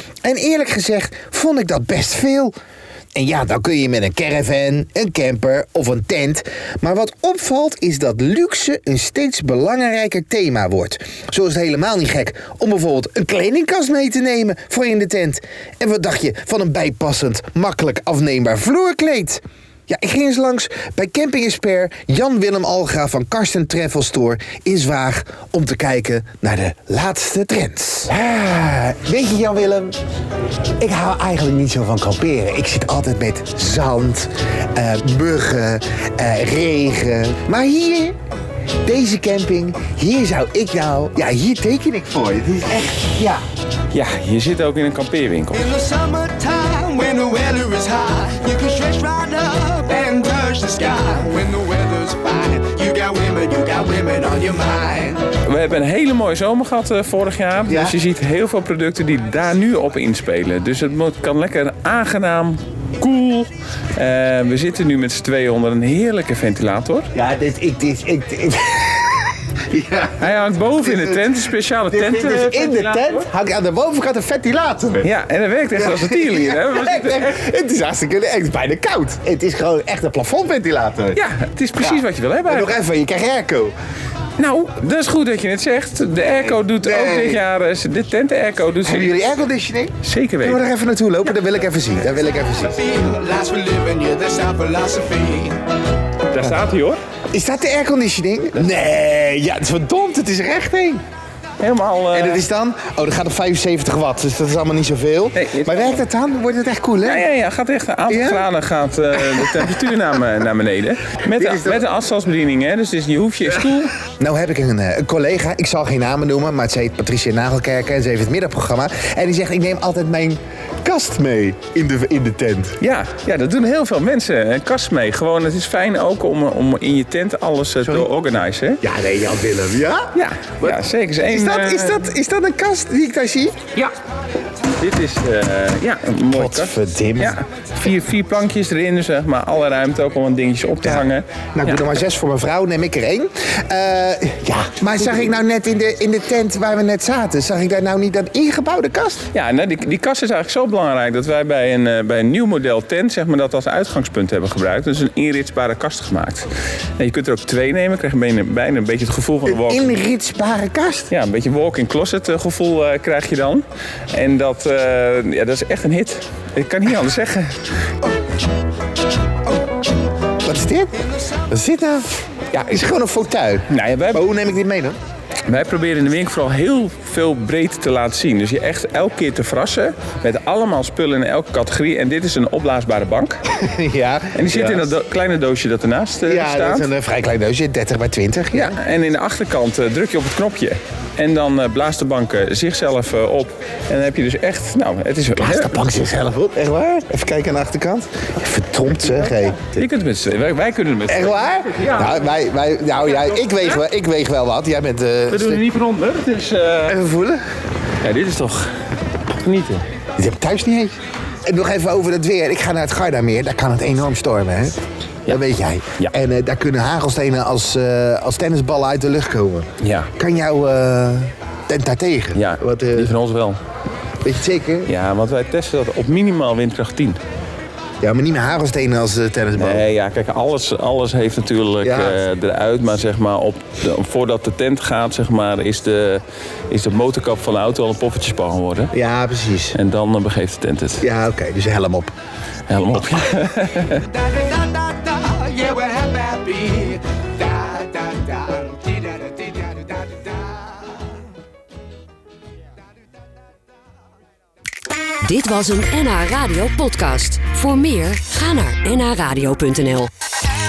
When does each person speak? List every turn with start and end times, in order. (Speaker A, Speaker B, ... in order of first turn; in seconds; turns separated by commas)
Speaker A: 0.2-2.5, Speaker A: 3.1-30.0, Speaker A: 30.8-38.2, Speaker A: 38.8-43.4, Speaker B: 43.9-45.7, Speaker C: 45.5-55.3, Speaker B: 55.4-67.1, Speaker A: 57.7-58.0, Speaker A: 67.1-75.1, Speaker B: 70.2-73.2, Speaker B: 75.0-77.4, Speaker A: 75.8-81.2, Speaker B: 81.1-82.8, Speaker A: 81.8-83.7, Speaker B: 84.4-89.1, Speaker A: 86.5-87.4, Speaker A: 88.8-92.8, Speaker B: 90.0-90.6, Speaker C: 92.8-95.6, Speaker B: 96.3-97.0, Speaker A: 97.3-101.0, Speaker B: 101.6-102.4, Speaker A: 102.1-107.3, Speaker B: 105.3-106.0, Speaker B: 107.0-114.0, Speaker A: 108.1-108.5, Speaker A: 109.2-109.7, Speaker A: 111.4-111.8, Speaker A: 114.2-122.8, Speaker B: 122.8-128.8, Speaker A: 128.8-133.6, Speaker B: 130.1-132.1, Speaker B: 134.8-141.9, Speaker A: 136.3-137.4, Speaker A: 140.8-149.2, Speaker B: 149.3-160.0, Speaker A: 159.5-161.1, Speaker B: 161.1-167.6, Speaker A: 170.4-172.2, Speaker B: 172.5-172.8, Speaker A: 172.7-175.0, Speaker B: 173.7-174.2, Speaker B: 175.5-183.4, Speaker A: 183.5-184.9, Speaker B: 184.3-186.9, Speaker A: 186.2-188.8, Speaker B: 188.5-195.8, Speaker A: 195.3-199.6, Speaker B: 199.1-202.3, Speaker A: 201.1-205.6, Speaker B: 203.1-203.8, Speaker B: 205.3-207.0, Speaker A: 206.9-207.4, Speaker B: 208.0-208.7, Speaker B: 209.4-209.8, Speaker A: 210.2-223.1, Speaker B: 219.8-220.1, Speaker B: 222.3-223.6, Speaker A: 224.2-224.9, Speaker B: 224.9-227.2, Speaker A: 228.0-229.8, Speaker B: 229.6-238.9, Speaker A: 231.8-232.2, Speaker A: 238.9-239.8, Speaker B: 239.7-241.0, Speaker A: 241.0-242.1, Speaker B: 242.7-244.1, Speaker C: 244.1-251.0, Speaker D: 255.2-260.1